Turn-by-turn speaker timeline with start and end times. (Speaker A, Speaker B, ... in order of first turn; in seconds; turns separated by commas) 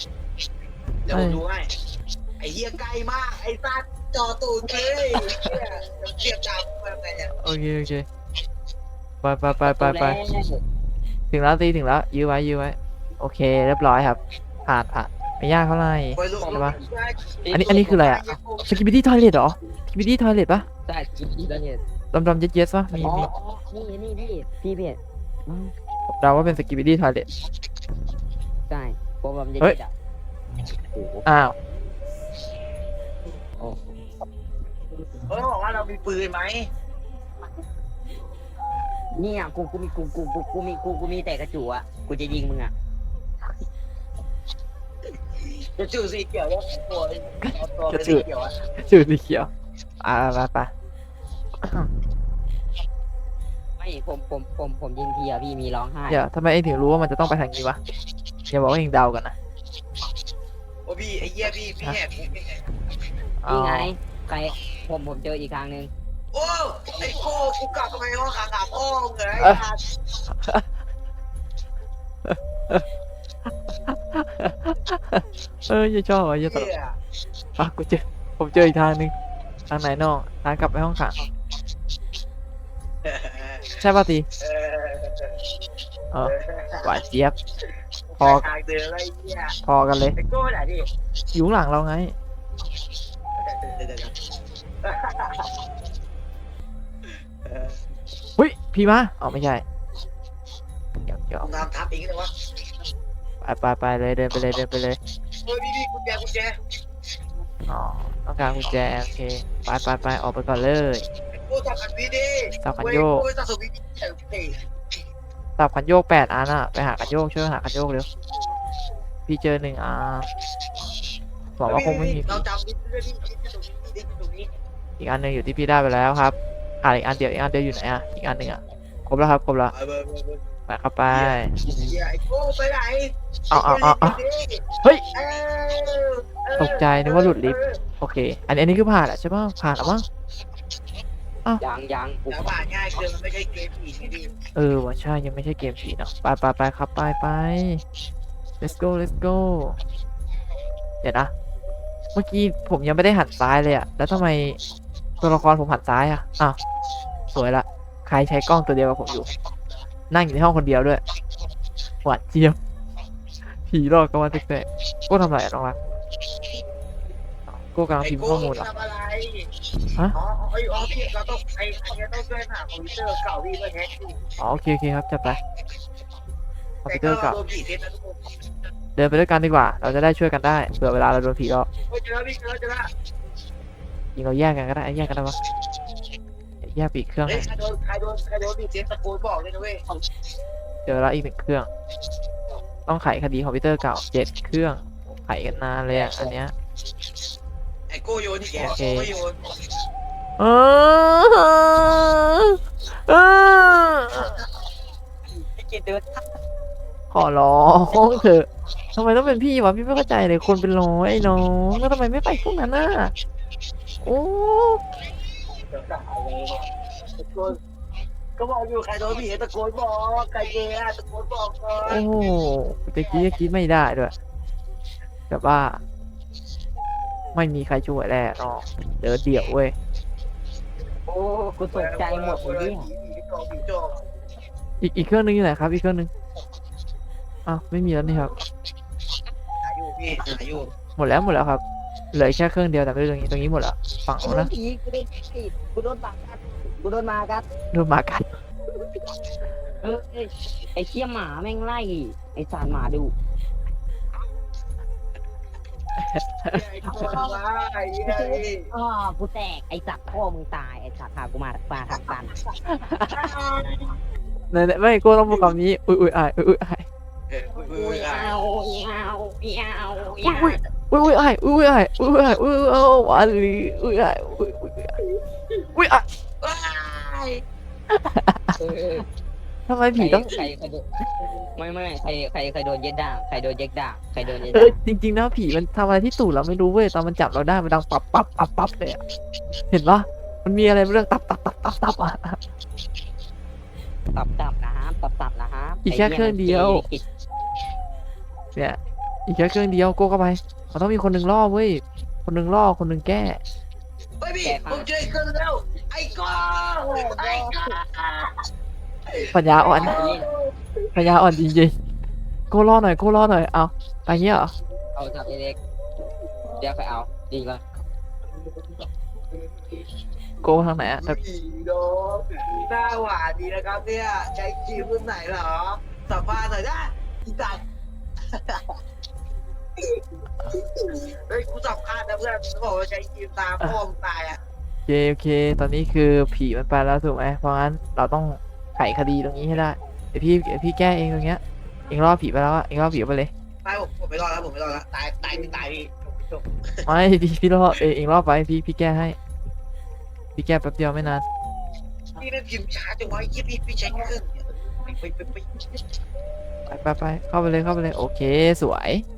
Speaker A: 1.0-1.7, Speaker B: 1.1-1.4, Speaker A: 2.4-7.3, Speaker B: 7.4-8.1, Speaker B: 9.2-10.2, Speaker C: 9.6-10.6, Speaker B: 11.3-16.7, Speaker A: 16.1-18.8, Speaker C: 16.4-16.8, Speaker C: 17.4-17.9, Speaker B: 17.5-20.6, Speaker C: 20.9-21.8, Speaker B: 22.1-23.3, Speaker C: 23.0-25.7, Speaker B: 26.1-27.2, Speaker C: 28.7-29.9, Speaker C: 30.6-31.2, Speaker B: 31.2-31.5, Speaker C: 33.6-33.9, Speaker A: 35.3-36.7, Speaker C: 39.1-42.7, Speaker A: 45.4-48.5, Speaker B: 47.4-48.2, Speaker B: 48.8-49.5, Speaker B: 50.0-50.7, Speaker B: 51.6-51.9, Speaker C: 53.8-56.2, Speaker B: 56.1-57.8, Speaker B: 58.5-59.3, Speaker A: 60.9-62.7, Speaker B: 63.4-63.9, Speaker C: 63.5-65.9, Speaker A: 66.3-69.8, Speaker B: 70.4-70.6, Speaker B: 72.2-72.8, Speaker B: 73.8-76.7, Speaker A: 76.4-77.0, Speaker B: 77.6-79.1, Speaker B: 79.7-81.2, Speaker A: 83.0-83.8, Speaker B: 83.8-84.2, Speaker A: 84.4-85.4, Speaker B: 86.1-87.3, Speaker A: 86.2-87.0, Speaker A: 88.1-89.5, Speaker B: 88.2-88.5, Speaker B: 89.6-90.2, Speaker A: 90.2-90.9, Speaker B: 91.3-92.1, Speaker A: 93.4-94.1, Speaker A: 94.8-95.5, Speaker A: 97.4-97.8, Speaker B: 98.4-99.6, Speaker B: 101.0-101.5, Speaker A: 101.4-102.3, Speaker B: 103.4-105.0, Speaker A: 105.4-106.5, Speaker B: 107.7-111.1, Speaker A: 111.3-114.6, Speaker B: 112.6-113.2, Speaker B: 115.6-118.1, Speaker B: 119.3-120.3, Speaker B: 121.6-122.4, Speaker A: 121.7-124.5, Speaker B: 125.0-129.7, Speaker A: 129.7-130.4, Speaker B: 130.7-131.5, Speaker A: 131.1-137.8, Speaker C: 131.6-132.0, Speaker B: 133.5-134.2, Speaker B: 136.6-140.0, Speaker C: 141.6-142.5, Speaker A: 142.3-144.3, Speaker B: 144.6-147.8, Speaker B: 148.6-149.8, Speaker B: 151.0-151.3, Speaker B: 152.1-154.6, Speaker B: 155.2-156.6, Speaker B: 157.3-159.3, Speaker B: 160.1-161.0, Speaker B: 162.0-162.6, Speaker B: 163.7-165.8, Speaker B: 167.5-168.7, Speaker A: 168.0-169.5, Speaker A: 170.1-174.2, Speaker B: 174.4-175.4, Speaker B: 176.8-177.4, Speaker A: 176.9-178.3, Speaker B: 178.9-181.7, Speaker A: 181.9-182.9, Speaker B: 184.2-185.3, Speaker B: 186.6-187.5, Speaker A: 187.3-189.8, Speaker B: 190.8-191.7, Speaker B: 192.8-196.5, Speaker C: 195.9-196.3, Speaker A: 197.9-199.5, Speaker B: 198.6-199.1, Speaker B: 200.4-204.4, Speaker C: 205.3-206.2, Speaker B: 207.1-213.1, Speaker B: 214.0-214.8, Speaker A: 215.7-217.6, Speaker A: 218.4-222.3, Speaker B: 221.8-224.1, Speaker B: 225.3-225.8, Speaker B: 227.3-229.7, Speaker C: 231.1-232.9, Speaker A: 231.7-234.0, Speaker B: 234.8-236.1, Speaker B: 237.4-238.3, Speaker A: 239.6-240.7, Speaker B: 240.8-241.6, Speaker B: 242.1-244.5, Speaker C: 244.2-247.5, Speaker B: 247.7-248.3, Speaker C: 249.8-253.1, Speaker B: 256.0-257.2, Speaker A: 256.5-258.6, Speaker C: 258.1-262.4, Speaker B: 262.7-263.2, Speaker A: 263.1-263.9, Speaker B: 264.5-266.9, Speaker A: 267.3-268.3, Speaker C: 267.6-270.6, Speaker B: 270.2-274.9, Speaker B: 275.7-276.0, Speaker A: 276.4-277.4, Speaker B: 277.9-278.5, Speaker C: 278.6-279.1, Speaker B: 279.7-280.3, Speaker C: 279.9-280.8, Speaker C: 281.6-284.8, Speaker B: 284.5-289.0, Speaker B: 289.7-292.4, Speaker C: 294.1-297.0, Speaker B: 295.8-296.8, Speaker B: 298.6-303.4, Speaker A: 304.2-308.3, Speaker C: 304.4-304.9, Speaker C: 306.9-307.6, Speaker A: 309.1-310.6, Speaker B: 309.3-310.0, Speaker C: 309.8-310.3, Speaker B: 310.9-311.7, Speaker B: 312.5-314.5, Speaker C: 314.9-315.6, Speaker C: 316.6-317.6, Speaker B: 320.4-321.2, Speaker A: 321.0-327.6, Speaker A: 328.3-328.8, Speaker A: 329.8-334.4, Speaker B: 334.9-343.3, Speaker A: 343.6-346.9, Speaker B: 346.9-349.2, Speaker B: 350.4-351.2, Speaker A: 352.1-355.8, Speaker B: 356.7-359.0